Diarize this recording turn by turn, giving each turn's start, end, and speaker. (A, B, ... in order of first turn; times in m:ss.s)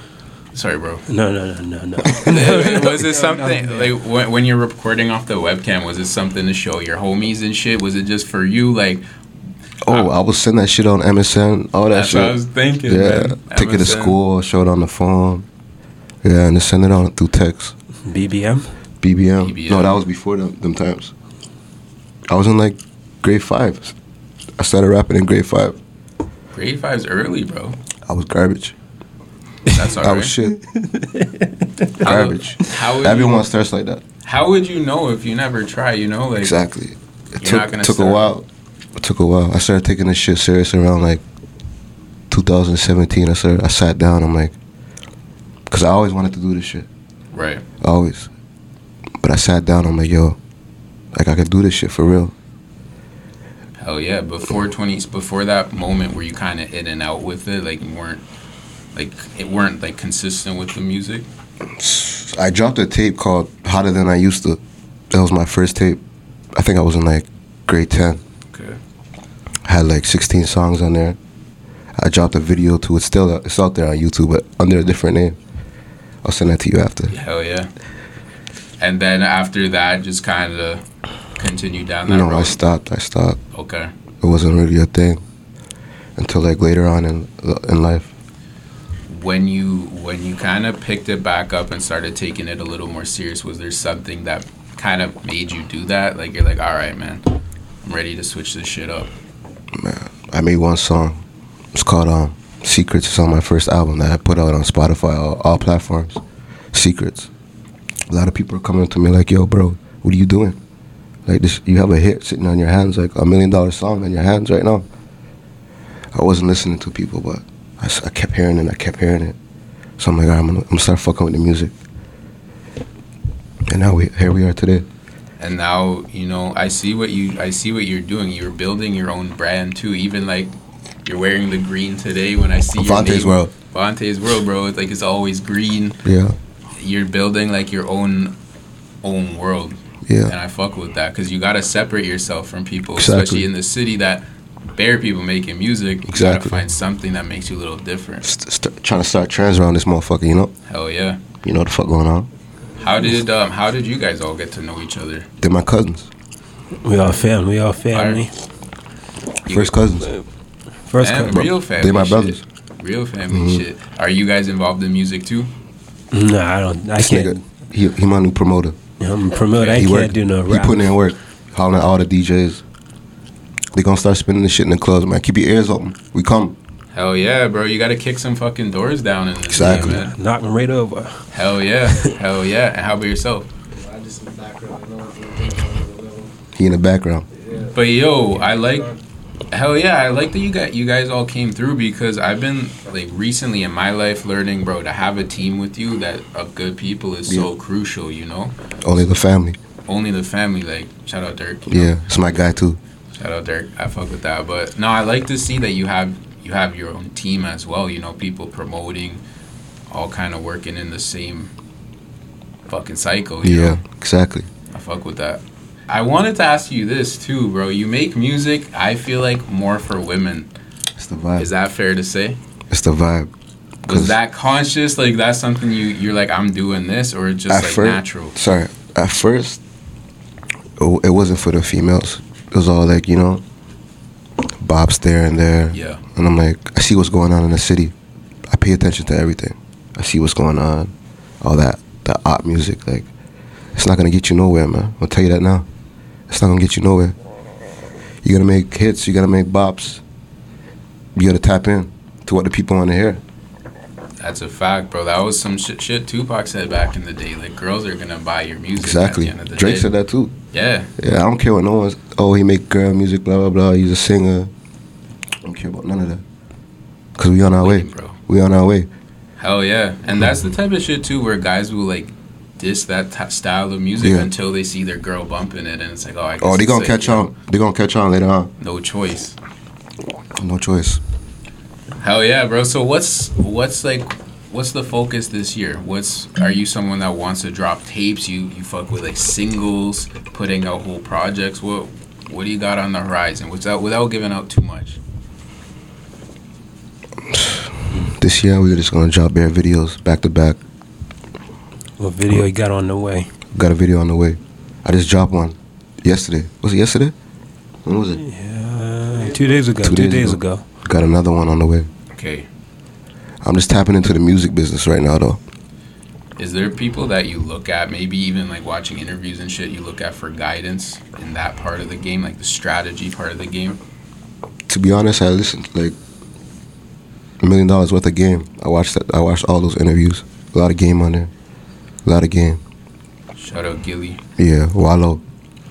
0:00.5-0:01.0 A
0:01.1-0:03.9 B
0:02.2-0:09.0 A
0:02.6-0:03.3 C
0:09.8-0:15.4 D
0:11.9-0:14.2 A
0:16.2-0:17.7 D
0:18.0-0:18.7 B
0:19.0-0:21.1 D
0:19.4-0:20.0 A
0:22.3-0:23.9 D
0:24.6-0:25.8 D
0:26.5-0:27.8 A
0:28.0-0:28.7 D
0:29.7-0:30.4 A
0:29.8-0:30.6 D
0:30.7-0:31.9 B
0:32.0-0:34.0 D
0:32.0-0:33.4 A
0:34.2-0:36.6 A
0:36.4-0:41.2 D
0:37.4-0:38.3 A
0:42.3-0:44.5 D
0:45.7-0:46.9 D
0:47.3-0:47.6 A
0:47.8-0:48.3 D
0:49.2-0:50.4 D
0:51.1-0:52.3 D
0:53.8-0:58.2 A
0:58.9-1:01.2 A
1:01.8-1:04.6 D
1:05.1-1:06.0 D
1:06.5-1:08.2 D
1:08.5-1:08.8 A
1:09.6-1:11.2 D
1:12.0-1:15.4 D
1:16.2-1:17.1 D
1:17.1-1:17.7 A
1:18.8-1:20.8 A
1:21.4-1:22.6 A
1:22.1-1:23.4 D
1:23.5-1:23.9 A
1:24.2-1:25.2 D
1:26.2-1:28.1 D
1:29.1-1:37.3 A
1:37.8-1:39.1 A
1:39.7-1:41.2 D
1:41.7-1:46.2 D
1:46.7-1:47.3 D
1:48.1-1:50.6 D
1:51.2-1:54.9 D
1:56.1-1:59.4 D
2:00.0-2:01.7 D
2:03.7-2:04.8 D
2:05.4-2:10.5 A
2:11.0-2:16.0 A
2:12.8-2:13.5 D
2:16.0-2:16.4 D
2:16.8-2:18.3 A
2:19.0-2:28.2 A
2:20.0-2:20.3 D
2:23.0-2:23.5 D
2:26.0-2:26.6 D
2:28.2-2:30.5 D
2:30.7-2:31.2 A
2:31.4-2:32.3 D
2:32.8-2:35.3 A
2:35.4-2:36.1 D
2:36.8-2:38.3 B
2:37.9-2:38.2 A
2:39.4-2:39.8 A
2:39.5-2:40.1 D
2:40.9-2:41.5 B
2:41.0-2:45.5 A
2:41.3-2:42.4 D
2:43.3-2:43.6 D
2:46.1-2:47.4 B
2:47.0-2:48.8 D
2:49.0-2:50.9 B
2:49.5-2:49.9 A
2:49.7-2:52.6 D
2:53.7-2:56.6 D
2:56.9-3:00.1 A
2:59.5-3:00.0 D
2:59.6-3:01.2 B
3:01.3-3:03.5 A
3:03.7-3:06.3 C
3:06.6-3:07.2 D
3:07.3-3:09.0 C
3:07.7-3:08.9 A
3:09.5-3:18.5 A
3:18.8-3:19.6 D
3:19.8-3:22.2 A
3:21.7-3:22.8 D
3:23.1-3:29.2 A
3:29.9-3:31.5 A
3:32.7-3:33.8 A
3:33.4-3:34.5 D
3:34.7-3:40.5 A
3:41.0-3:41.5 D
3:41.4-3:42.4 A
3:42.7-3:43.3 D
3:43.8-3:48.4 A
3:43.9-3:44.2 D
3:47.5-3:49.6 D
3:50.8-3:53.4 D
3:54.6-3:57.9 D
3:55.7-3:56.0 A
3:58.5-4:03.1 D
4:03.7-4:05.6 D
4:06.3-4:07.1 D
4:08.2-4:10.0 D
4:11.1-4:13.2 D
4:14.2-4:19.9 A
4:18.8-4:20.3 D
4:20.5-4:20.9 A
4:21.0-4:24.5 D
4:25.4-4:26.2 D
4:27.2-4:28.9 D
4:27.6-4:28.2 A
4:29.4-4:37.3 A
4:34.0-4:34.3 D
4:36.4-4:38.5 D
4:38.6-4:39.4 A
4:40.4-4:41.0 D
4:42.0-4:55.0 A
4:57.2-5:00.6 D
5:02.0-5:03.3 B
5:03.5-5:07.1 D
5:07.8-5:08.2 D
5:08.2-5:10.6 B
5:09.2-5:09.6 C
5:09.8-5:11.9 D
5:12.1-5:12.5 A
5:13.4-5:15.4 D
5:16.4-5:23.8 A
5:24.7-5:26.0 D
5:27.4-5:31.3 D
5:32.0-5:32.6 D
5:33.4-5:34.2 A
5:34.4-5:35.2 D